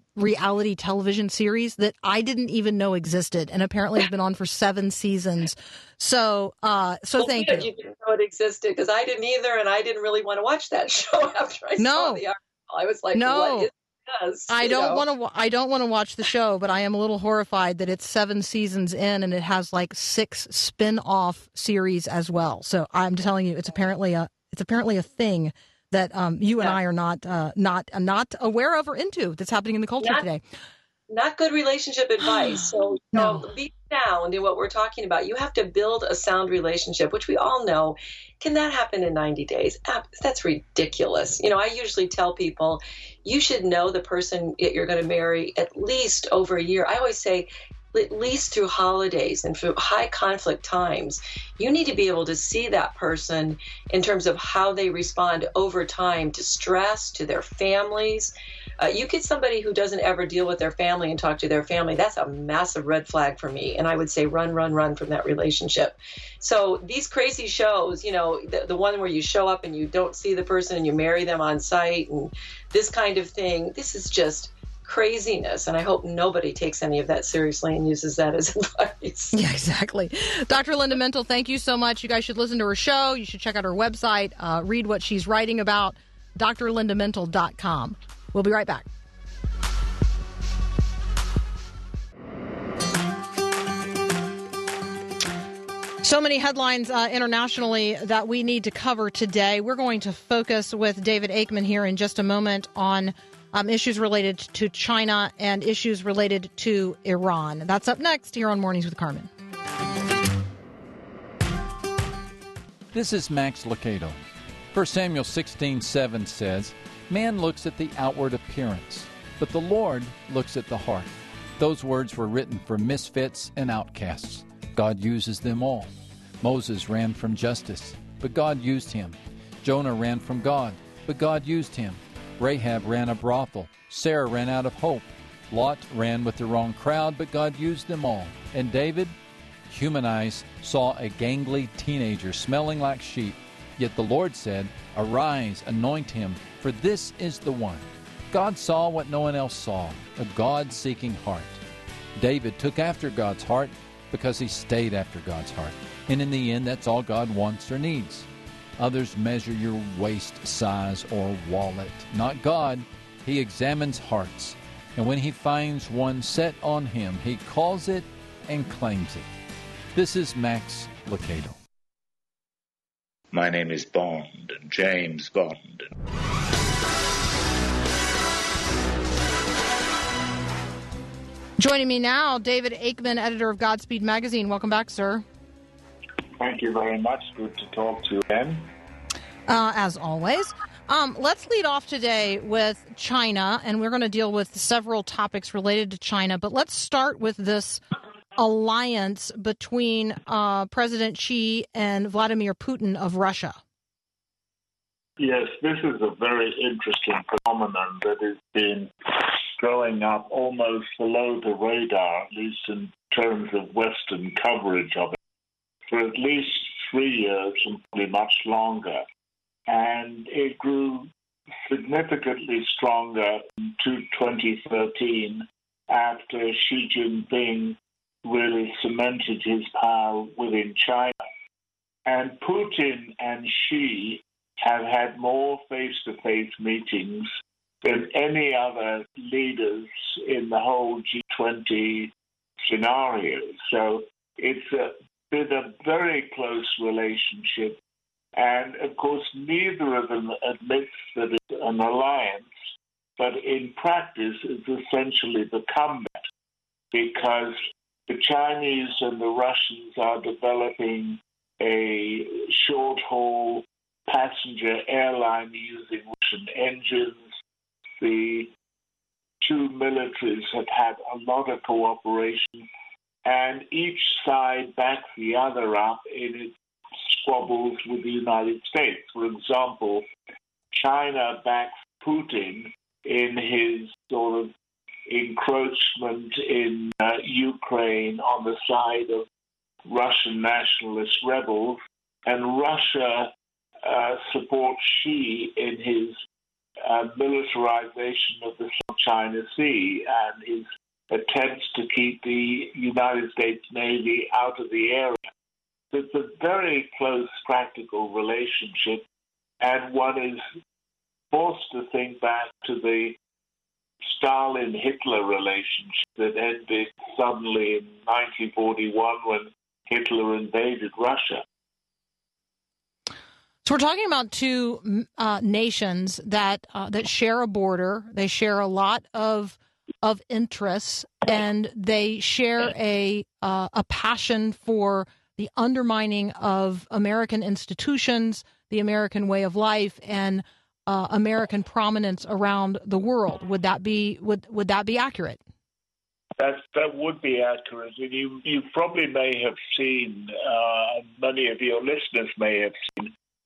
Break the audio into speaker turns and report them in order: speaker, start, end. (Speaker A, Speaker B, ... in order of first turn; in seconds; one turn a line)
Speaker A: 0.2-7.7
Speaker B: 7.2-15.0
Speaker A: 11.8-12.2
Speaker A: 13.2-13.7
Speaker A: 14.5-30.4
Speaker B: 31.1-79.3
Speaker A: 33.1-33.4
Speaker A: 79.3-88.9
Speaker A: 96.0-109.3
Speaker C: 112.9-114.2
Speaker C: 114.7-139.2
Speaker C: 139.7-151.6
Speaker C: 152.2-169.3
Speaker C: 169.9-171.6
Speaker D: 173.3-175.9
Speaker A: 181.6-185.2
Speaker E: 186.4-188.7
Speaker A: 189.5-197.8
Speaker A: 198.4-203.6
Speaker E: 205.2-215.2
Speaker E: 215.9-219.0
Speaker E: 219.7-221.1
Speaker E: 221.7-231.2
Speaker E: 232.1-237.3
Speaker E: 237.8-242.1
Speaker E: 242.7-247.8
Speaker E: 248.3-252.5
Speaker E: 253.2-256.3
Speaker E: 256.9-267.3
Speaker E: 268.0-268.5
Speaker E: 269.4-272.7
Speaker E: 273.2-280.1
Speaker E: 280.7-284.5
Speaker E: 285.1-289.3
Speaker E: 289.9-293.3
Speaker E: 293.8-296.2
Speaker E: 296.8-305.2
Speaker E: 305.9-309.1
Speaker E: 309.6-310.4
Speaker E: 311.3-313.2
Speaker E: 314.0-321.4
Speaker A: 323.6-345.4
Speaker E: 346.4-353.1